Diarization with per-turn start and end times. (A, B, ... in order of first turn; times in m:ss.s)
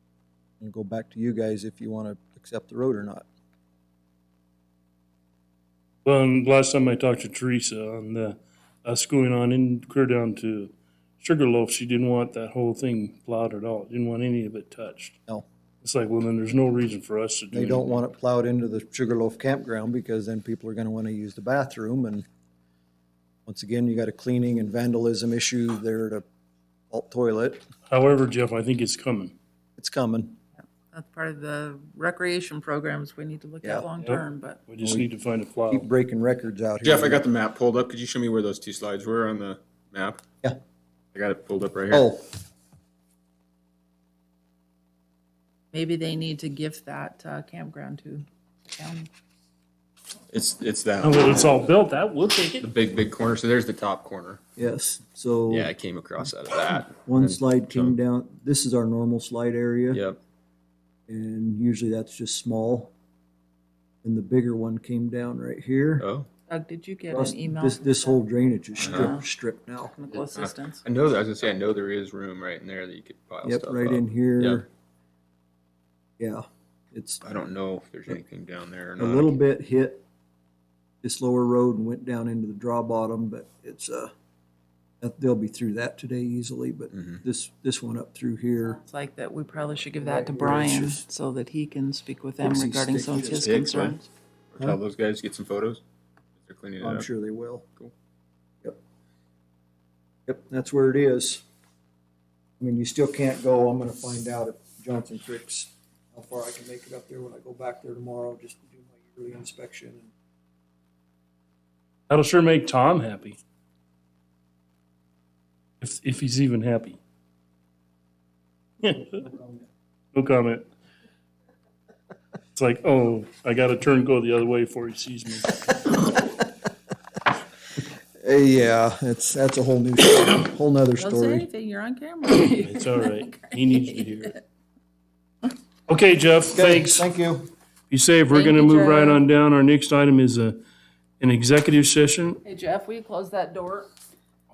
0:00.6-0:03.2 A
0:06.0-0:15.2 B
0:15.8-0:17.8 B
0:17.5-0:22.2 A
0:23.4-0:26.2 A
0:26.9-0:27.6 A
0:27.9-0:29.3 B
0:29.8-0:30.4 A
0:30.9-0:34.7 C
0:34.0-0:35.8 B
0:35.7-0:37.2 A
0:36.8-0:40.2 D
0:41.1-0:42.1 D
0:41.9-0:42.2 A
0:45.7-0:49.1 C
0:50.3-0:51.7 D
0:51.0-0:52.6 B
0:52.6-0:54.4 D
0:54.6-0:55.7 A
0:55.5-0:58.0 D
0:57.0-1:00.0 A
0:59.9-1:00.2 D
1:01.1-1:02.9 A
1:04.0-1:06.1 A
1:06.0-1:06.3 D
1:06.5-1:08.2 C
1:07.1-1:09.9 A
1:08.8-1:09.3 C
1:08.8-1:09.2 D
1:09.8-1:10.8 C
1:10.2-1:14.6 D
1:13.4-1:14.6 A
1:16.2-1:17.2 A
1:17.2-1:19.4 D
1:19.0-1:20.0 A
1:21.0-1:24.1 A
1:25.0-1:28.8 A
1:28.6-1:34.1 C
1:30.0-1:31.0 A
1:32.4-1:33.6 A
1:33.4-1:34.0 D
1:34.5-1:35.8 D
1:36.4-1:37.1 D
1:36.8-1:37.6 A
1:40.2-1:41.4 A
1:42.6-1:50.1 A
1:52.1-1:53.4 B
1:55.8-1:57.0 B
1:58.8-1:59.1 B
1:59.2-1:59.6 A
2:00.1-2:00.7 B
2:02.6-2:05.5 B
2:08.2-2:11.4 A
2:11.0-2:14.4 C
2:12.6-2:14.3 B
2:15.9-2:17.0 B
2:16.5-2:17.5 A
2:17.9-2:20.6 B
2:18.3-2:19.2 C
2:21.2-2:22.4 B
2:22.4-2:23.9 C